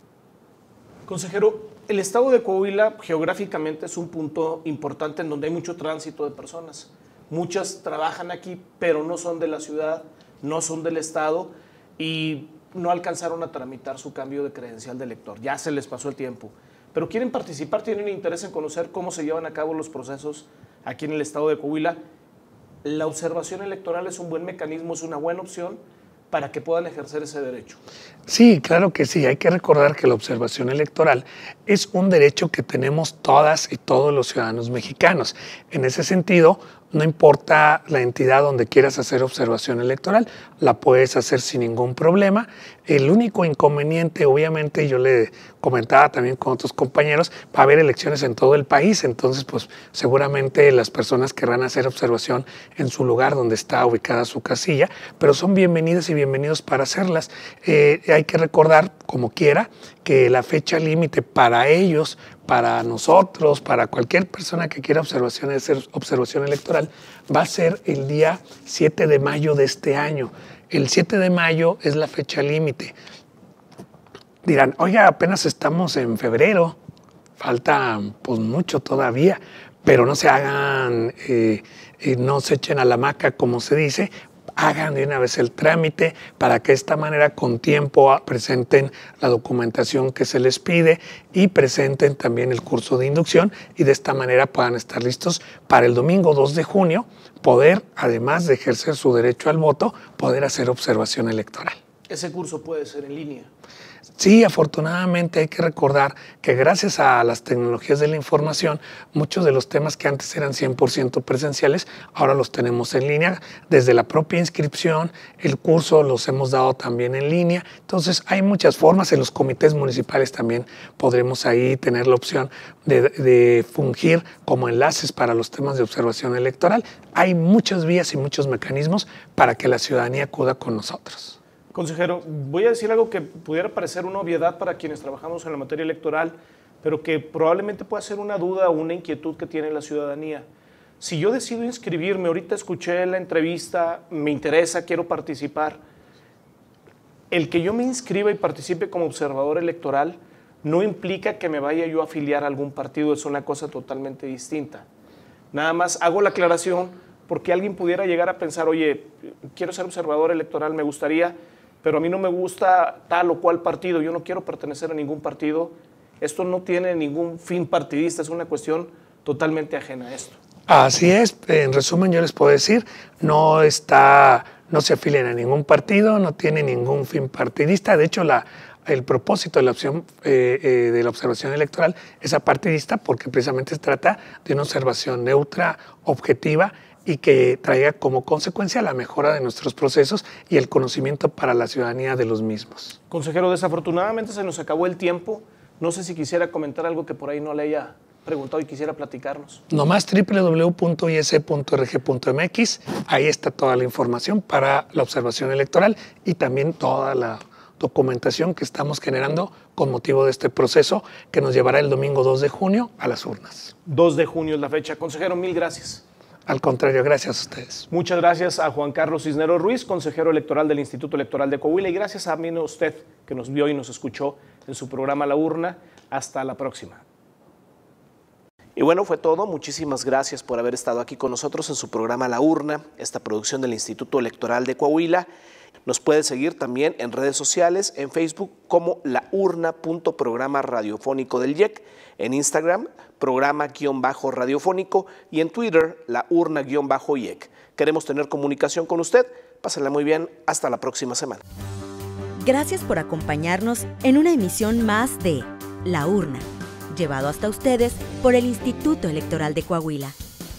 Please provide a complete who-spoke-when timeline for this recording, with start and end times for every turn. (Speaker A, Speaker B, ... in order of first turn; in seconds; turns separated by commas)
Speaker A: 1.1-22.0, Speaker A: 22.8-25.8, Speaker A: 26.3-27.8, Speaker B: 28.3-73.0, Speaker B: 74.4-76.8, Speaker B: 77.4-101.8, Speaker A: 102.1-103.5, Speaker B: 104.2-131.4, Speaker A: 131.7-140.4, Speaker A: 141.0-145.8, Speaker A: 147.3-154.8, Speaker A: 155.5-170.4, Speaker B: 170.7-193.0, Speaker A: 193.1-199.6, Speaker B: 199.7-213.7, Speaker A: 213.8-216.0, Speaker B: 216.5-217.9, Speaker A: 217.9-227.0, Speaker A: 228.8-235.3, Speaker A: 235.8-251.4, Speaker C: 252.4-260.1